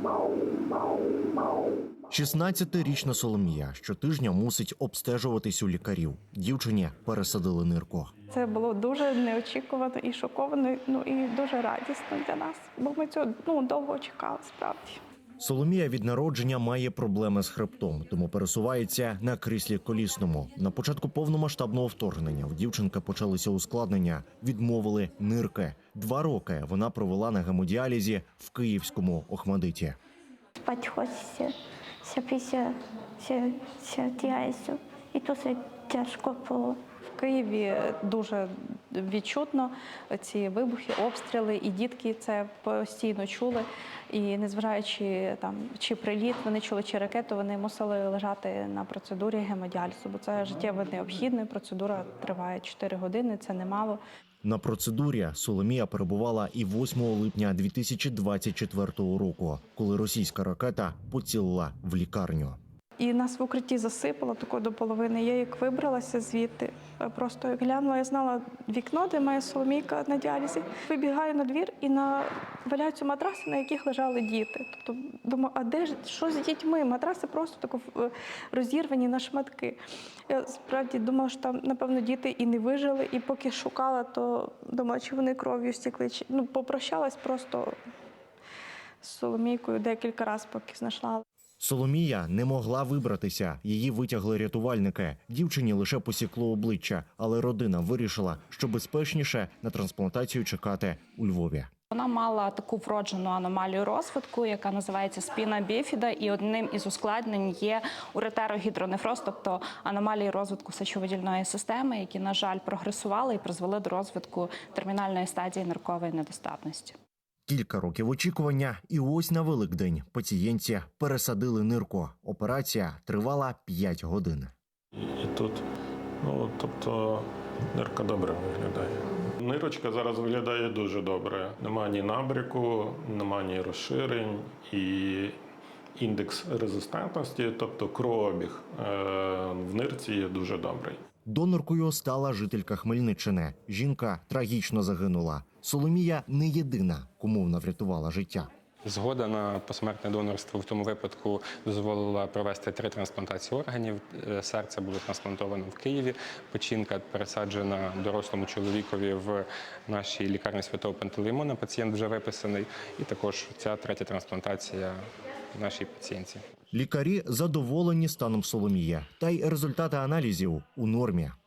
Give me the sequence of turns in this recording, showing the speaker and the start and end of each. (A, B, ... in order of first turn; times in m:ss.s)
0:02.1-0:08.1 A
0:08.3-0:15.0 B
0:15.4-0:30.0 A
0:30.6-0:31.5 C
0:32.0-0:36.8 C
0:37.1-0:54.0 B
0:54.4-1:02.6 A
1:03.0-1:27.8 B
1:29.0-1:31.2 B
1:31.6-1:41.7 A
1:41.9-1:57.0 D
1:57.5-2:04.5 A
2:05.0-2:05.6 E
2:06.2-2:15.4 E
2:16.0-2:21.0 E
2:21.3-2:28.5 A
2:28.9-2:45.0 F
2:45.6-2:46.4 F
2:46.7-2:51.4 A